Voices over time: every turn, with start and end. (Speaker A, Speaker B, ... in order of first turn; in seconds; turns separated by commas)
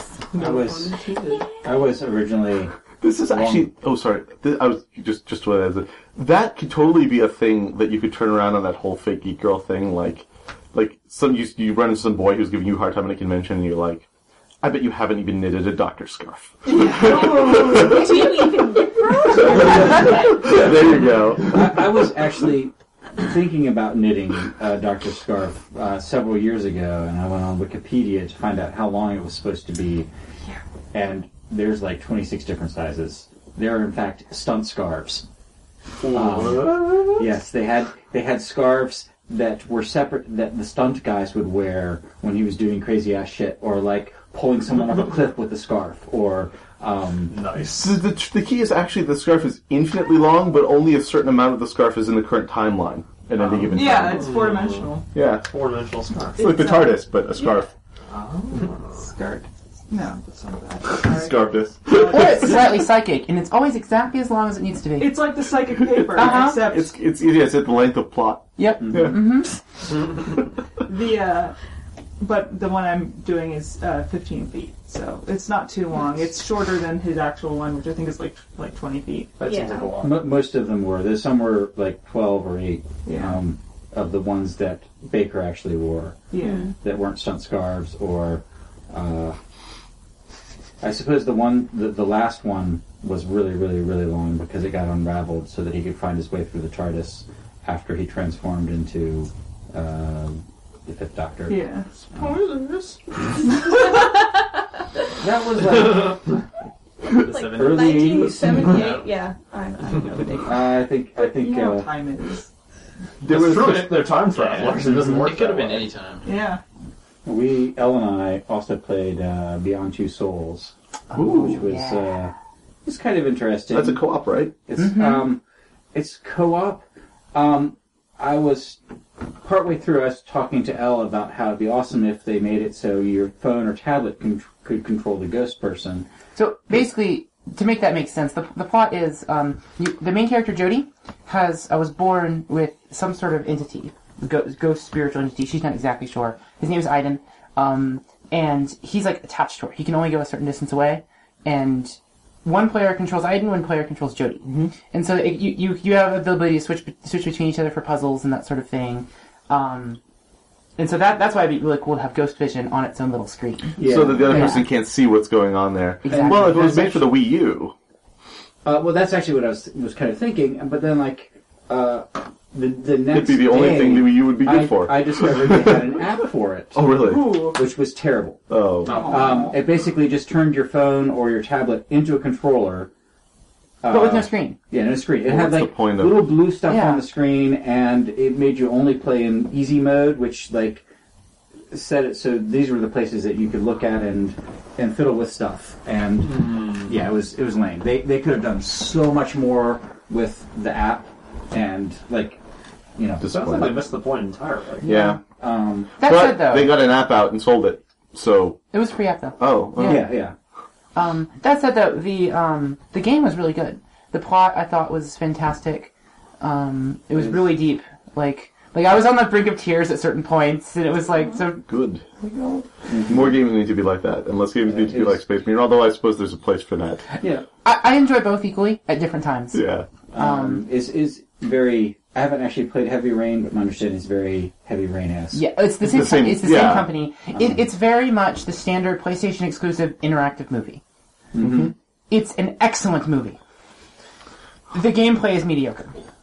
Speaker A: 0.3-0.9, Speaker B: 0.7-1.1, Speaker A: 1.6-3.7, Speaker C: 3.0-14.1, Speaker C: 14.6-18.7, Speaker B: 16.8-17.2, Speaker D: 16.9-20.5, Speaker C: 19.4-21.6, Speaker A: 19.6-19.9, Speaker A: 21.5-30.1, Speaker A: 30.9-35.2, Speaker E: 36.0-37.2, Speaker A: 36.1-47.4, Speaker E: 47.3-48.0, Speaker C: 47.7-54.3, Speaker E: 53.4-56.6, Speaker B: 53.7-55.1, Speaker C: 55.1-55.5, Speaker B: 56.4-57.6, Speaker C: 56.4-57.7, Speaker E: 58.1-59.0, Speaker B: 59.0-62.8, Speaker C: 61.0-62.6, Speaker F: 62.0-65.3, Speaker B: 65.0-67.0, Speaker C: 65.8-69.4, Speaker F: 66.1-66.7, Speaker F: 68.6-69.5, Speaker B: 70.9-71.5, Speaker B: 72.2-79.4, Speaker E: 79.4-80.2, Speaker D: 79.5-79.9, Speaker A: 80.0-89.4, Speaker B: 83.0-83.4, Speaker B: 86.3-86.7, Speaker D: 86.4-86.7, Speaker A: 90.8-101.7, Speaker B: 101.5-101.9, Speaker A: 105.2-106.3, Speaker G: 107.1-108.1, Speaker D: 107.3-110.8, Speaker A: 107.5-108.8, Speaker G: 108.7-109.0, Speaker A: 110.4-111.9, Speaker B: 111.1-112.5, Speaker C: 113.2-114.1, Speaker E: 113.2-115.9, Speaker G: 114.3-116.3, Speaker B: 116.2-116.6, Speaker A: 117.2-122.3, Speaker F: 121.1-122.1, Speaker C: 121.2-121.5, Speaker A: 122.8-125.4, Speaker C: 123.7-124.5, Speaker F: 124.8-125.2, Speaker A: 125.9-128.8, Speaker A: 129.4-136.1, Speaker F: 136.3-160.0, Speaker F: 160.8-164.7, Speaker A: 163.8-164.6, Speaker C: 163.8-167.7, Speaker F: 166.1-166.9, Speaker A: 166.1-167.1, Speaker A: 168.7-176.9, Speaker C: 173.1-176.0, Speaker C: 176.7-177.4, Speaker B: 177.0-177.6, Speaker A: 177.5-178.4, Speaker C: 178.5-179.0, Speaker A: 178.9-182.9, Speaker A: 183.8-190.8, Speaker F: 183.9-184.6, Speaker C: 185.2-186.4, Speaker F: 186.6-187.0, Speaker A: 191.7-202.4, Speaker E: 196.4-196.7, Speaker A: 203.0-203.7, Speaker C: 203.2-203.8, Speaker E: 203.2-204.9, Speaker C: 204.8-205.2, Speaker F: 204.9-205.2, Speaker A: 204.9-205.9, Speaker F: 206.0-206.7, Speaker C: 206.0-208.6, Speaker F: 208.7-210.1, Speaker C: 209.4-210.1, Speaker A: 209.8-210.3, Speaker F: 210.9-221.7, Speaker C: 221.7-222.2, Speaker A: 222.9-223.4, Speaker C: 223.1-227.1, Speaker A: 224.7-225.2, Speaker A: 227.2-227.5, Speaker F: 227.6-229.6, Speaker C: 229.5-229.9, Speaker A: 230.1-235.5, Speaker F: 230.1-230.6, Speaker F: 235.3-240.8, Speaker C: 235.8-236.9, Speaker A: 241.3-241.7, Speaker C: 241.4-241.7, Speaker F: 242.1-243.4, Speaker F: 244.7-245.9